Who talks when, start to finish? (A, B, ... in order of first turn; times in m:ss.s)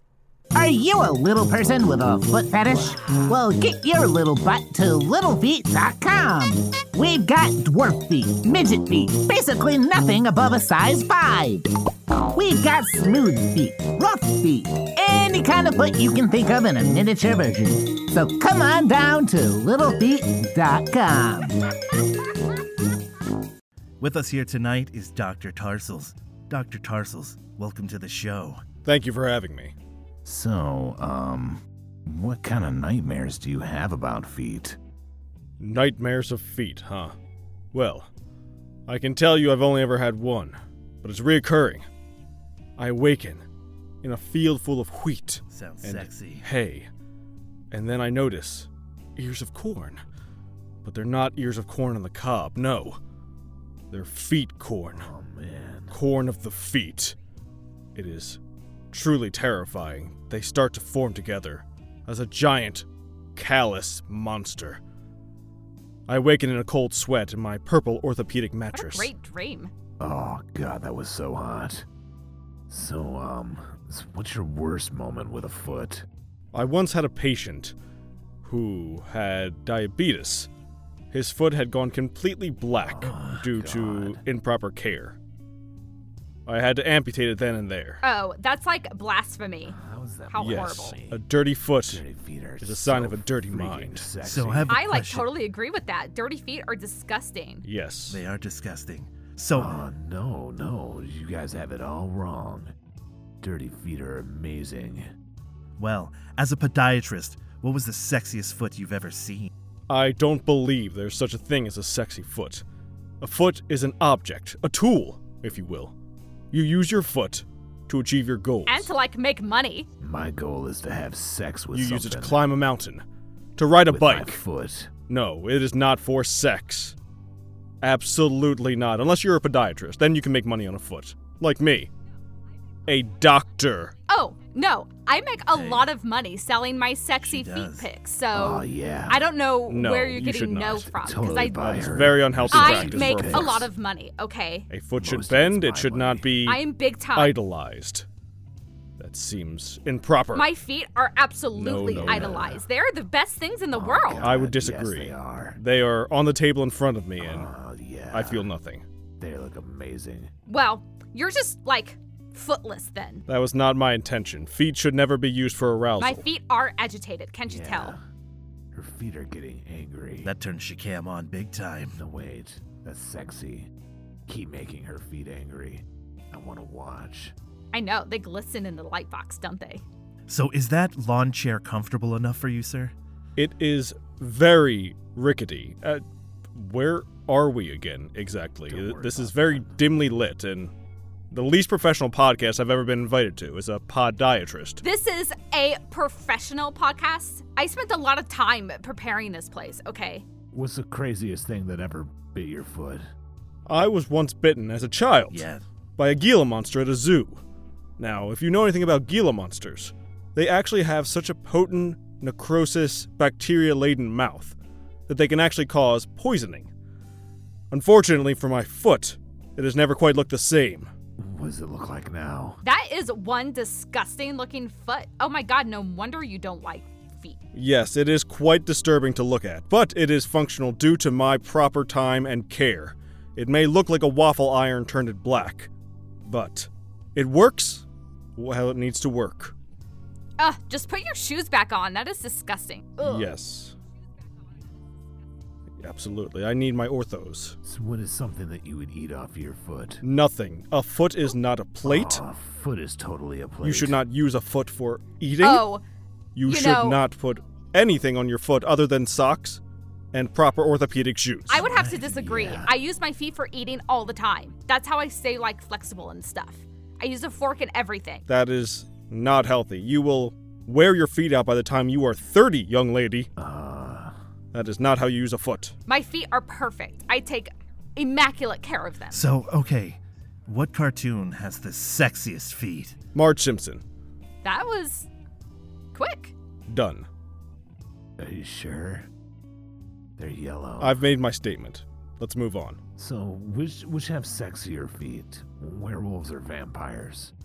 0:00.6-0:11.7 A
0:12.3-0:21.6 A
0:24.0-0:28.6 B
0:28.8-0:29.7 C
0:30.2-0:34.8 D
0:35.6-0:37.1 C
0:37.7-0:38.1 C
0:38.9-0:41.8 C
0:42.8-0:43.4 C
0:44.0-0:46.9 C
0:45.5-0:46.5 B
0:47.7-0:50.0 C
0:50.8-0:53.0 C
0:53.9-0:55.0 C
0:54.9-0:56.0 D
0:55.9-0:57.2 C
0:58.0-0:58.4 C
0:58.9-1:02.8 C
1:03.4-1:04.8 C
1:06.1-1:09.1 C
1:08.7-1:09.7 E
1:10.0-1:11.9 D
1:12.7-1:16.1 D
1:16.5-1:17.7 C
1:18.4-1:20.5 C
1:21.1-1:25.2 C
1:22.8-1:24.2 D
1:26.5-1:28.0 C
1:28.0-1:29.8 E
1:29.7-1:31.2 D
1:30.3-1:31.0 E
1:30.4-1:32.0 C
1:31.8-1:34.8 D
1:32.6-1:34.0 C
1:34.2-1:35.3 B
1:34.7-1:37.7 E
1:37.6-1:38.2 C
1:38.1-1:39.7 B
1:39.5-1:42.7 D
1:43.4-1:45.1 D
1:45.8-1:49.5 B
1:49.9-1:52.6 C
1:53.2-1:55.9 C
1:56.5-1:58.9 C
1:58.7-1:59.9 E
2:00.0-2:02.4 D
2:01.8-2:03.0 C
2:03.6-2:04.4 C
2:03.9-2:04.9 D
2:05.1-2:06.9 C
2:07.8-2:11.9 C
2:12.9-2:13.9 C
2:14.1-2:21.8 E
2:15.5-2:15.9 B
2:17.2-2:17.9 B
2:18.3-2:19.2 D
2:19.7-2:20.8 C
2:20.9-2:23.7 D
2:21.6-2:23.6 C
2:22.5-2:24.7 E
2:24.7-2:26.6 C
2:25.0-2:26.3 D
2:26.5-2:27.4 E
2:27.2-2:28.1 C
2:29.0-2:30.4 C
2:30.3-2:34.3 E
2:31.6-2:32.4 C
2:31.9-2:32.6 D
2:33.7-2:35.6 D
2:34.2-2:37.5 C
2:37.2-2:38.5 D
2:38.1-2:38.8 C
2:39.2-2:40.3 D
2:40.5-2:43.2 E
2:43.3-2:46.2 C
2:46.0-2:48.0 E
2:47.5-2:48.0 D
2:48.7-2:50.3 D
2:50.2-2:52.0 B
2:52.0-2:53.7 D
2:54.3-2:57.4 D
2:57.7-2:59.8 E
3:00.3-3:02.9 B
3:03.4-3:06.0 C
3:06.6-3:10.7 C
3:08.7-3:09.8 D
3:11.3-3:14.8 C
3:14.8-3:20.2 E
3:20.5-3:23.1 D
3:23.7-3:25.4 C
3:25.3-3:25.6 B
3:26.0-3:27.4 C
3:28.0-3:34.6 C
3:35.1-3:36.7 C
3:37.7-3:40.9 C
3:41.2-3:42.6 D
3:42.6-3:47.4 E
3:47.6-3:55.7 C
3:56.3-3:57.8 C
3:58.4-3:59.5 C
4:00.4-4:03.4 E
4:03.0-4:03.7 C
4:05.8-4:07.6 C
4:07.6-4:10.0 D
4:10.0-4:12.2 C
4:11.8-4:14.0 D
4:13.6-4:15.6 C
4:15.4-4:15.8 E
4:16.4-4:19.6 C
4:16.4-4:17.0 E
4:20.1-4:21.6 C
4:21.5-4:28.2 E
4:21.6-4:22.7 D
4:21.7-4:22.0 B
4:28.3-4:33.3 C
4:33.4-4:34.2 D
4:34.5-4:35.7 C
4:35.9-4:39.2 E
4:39.1-4:43.0 B
4:43.2-4:43.8 C
4:44.4-4:45.1 E
4:45.9-4:46.3 E
4:46.7-4:47.1 C
4:48.2-4:49.1 D
4:50.2-4:51.1 D
4:50.8-4:52.8 C
4:53.0-4:57.3 D